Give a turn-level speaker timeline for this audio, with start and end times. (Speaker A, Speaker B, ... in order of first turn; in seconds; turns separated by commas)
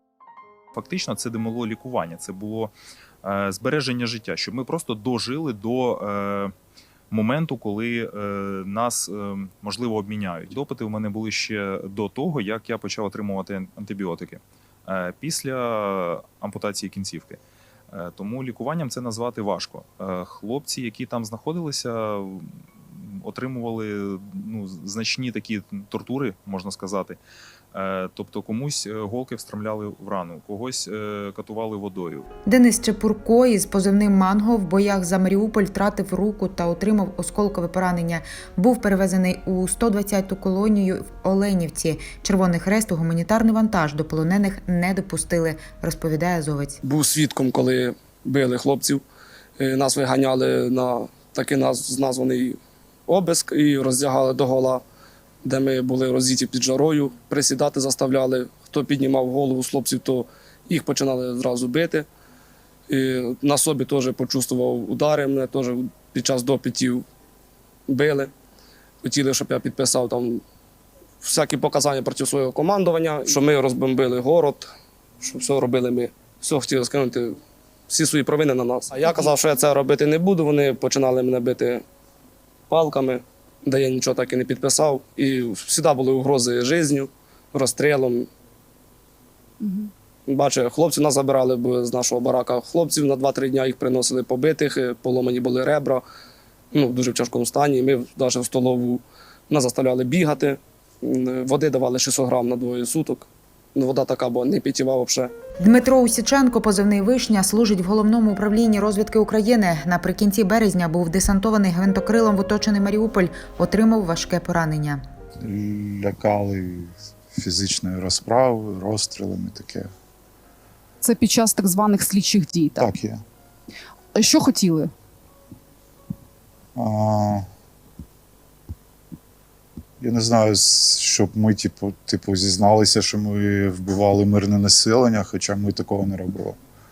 Speaker A: 0.8-6.5, Speaker A: 7.1-17.4, Speaker A: 17.9-27.2, Speaker A: 27.7-32.3, Speaker B: 32.5-46.8, Speaker C: 46.8-49.0, Speaker C: 49.6-54.8, Speaker C: 55.4-62.1, Speaker C: 62.9-67.0, Speaker C: 67.9-68.3, Speaker C: 69.0-70.4, Speaker C: 71.2-74.7, Speaker C: 75.2-77.4, Speaker C: 77.9-81.8, Speaker C: 82.7-88.3, Speaker C: 90.3-96.0, Speaker C: 96.7-105.3, Speaker B: 105.6-115.0, Speaker D: 115.4-119.9, Speaker E: 121.0-122.9, Speaker D: 122.8-123.2, Speaker E: 124.2-124.9, Speaker D: 126.8-127.5, Speaker D: 130.0-136.6